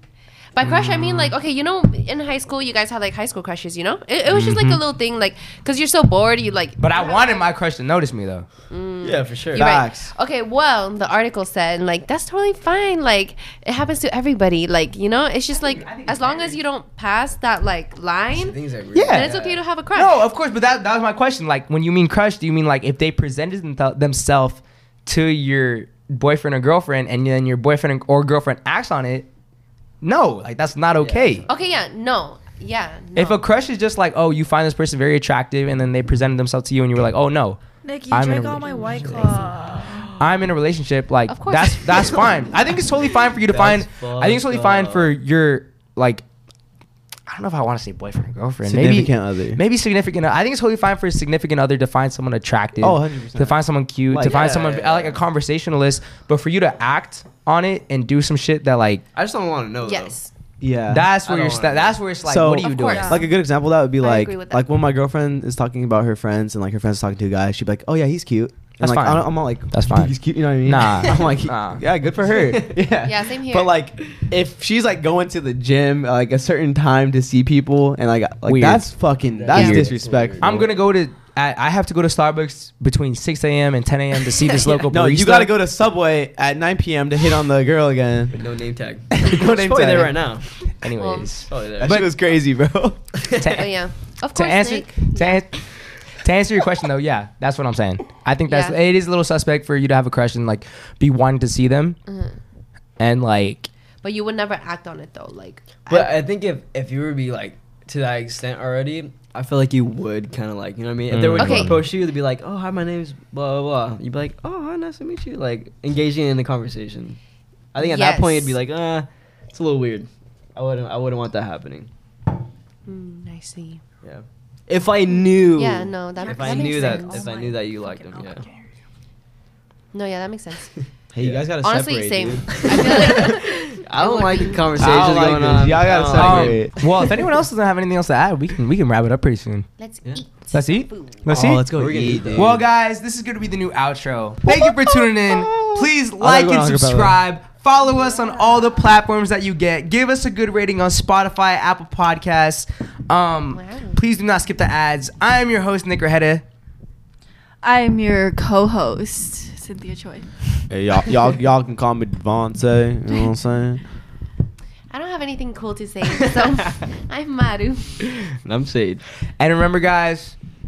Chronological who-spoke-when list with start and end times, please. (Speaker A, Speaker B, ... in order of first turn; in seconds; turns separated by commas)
Speaker A: 0.5-7.5, Speaker B: 0.6-1.3, Speaker B: 4.3-4.8, Speaker B: 6.8-8.5, Speaker A: 8.7-18.6, Speaker C: 9.0-9.6, Speaker D: 9.6-10.1, Speaker B: 15.6-16.6, Speaker C: 18.3-19.6, Speaker B: 18.9-19.3, Speaker A: 19.1-20.2, Speaker B: 19.9-29.3, Speaker B: 30.0-31.4, Speaker C: 30.9-31.7, Speaker A: 31.5-33.4, Speaker B: 33.1-37.6, Speaker E: 37.8-40.1, Speaker B: 38.1-38.9, Speaker C: 38.7-39.9, Speaker B: 40.2-46.2, Speaker A: 41.3-42.4, Speaker C: 42.0-42.3, Speaker C: 43.4-45.1, Speaker B: 47.2-59.0, Speaker D: 48.6-49.6, Speaker D: 52.8-54.4, Speaker C: 54.3-55.2, Speaker C: 59.1-60.2, Speaker A: 59.8-60.3, Speaker D: 60.6-61.1, Speaker B: 60.9-63.2, Speaker C: 61.2-62.0, Speaker D: 62.2-80.7, Speaker E: 62.6-63.3, Speaker A: 64.0-64.6, Speaker B: 68.8-71.8, Speaker C: 71.0-71.3, Speaker C: 72.2-72.9, Speaker A: 73.0-73.7, Speaker B: 78.5-78.9, Speaker C: 79.3-80.7, Speaker A: 79.5-79.8, Speaker B: 79.5-79.9, Speaker B: 80.4-85.5, Speaker D: 84.9-88.4, Speaker C: 88.3-90.5, Speaker D: 89.1-90.3, Speaker B: 90.8-92.1, Speaker A: 90.8-91.5, Speaker C: 91.5-92.1, Speaker D: 91.8-93.2, Speaker C: 93.2-93.6, Speaker B: 93.3-93.7, Speaker A: 93.5-95.5, Speaker B: 94.3-95.6, Speaker B: 96.1-102.0, Speaker A: 98.5-98.8, Speaker A: 102.1-102.4, Speaker B: 103.0-103.7, Speaker A: 104.0-106.0, Speaker C: 105.9-117.2, Speaker B: 111.1-111.8, Speaker A: 111.4-111.8, Speaker C: 117.7-121.9, Speaker A: 117.8-118.6, Speaker A: 122.8-123.8, Speaker C: 124.0-128.4, Speaker A: 125.5-127.2, Speaker E: 126.2-128.6, Speaker A: 129.9-130.7, Speaker D: 131.1-133.4, Speaker C: 131.2-131.4, Speaker A: 131.6-134.7, Speaker C: 132.5-137.2, Speaker D: 134.8-136.8, Speaker B: 134.8-135.3, Speaker B: 136.1-139.7, Speaker A: 139.8-141.2, Speaker B: 140.5-141.7, Speaker D: 141.2-142.6, Speaker C: 141.7-142.6, Speaker B: 142.3-156.4, Speaker D: 144.5-147.2, Speaker A: 147.8-148.8, Speaker A: 153.5-154.0, Speaker E: 157.6-160.3, Speaker D: 160.7-163.8, Speaker A: 164.9-168.0, Speaker C: 166.1-166.8, Speaker C: 168.0-169.0, Speaker B: 169.4-170.3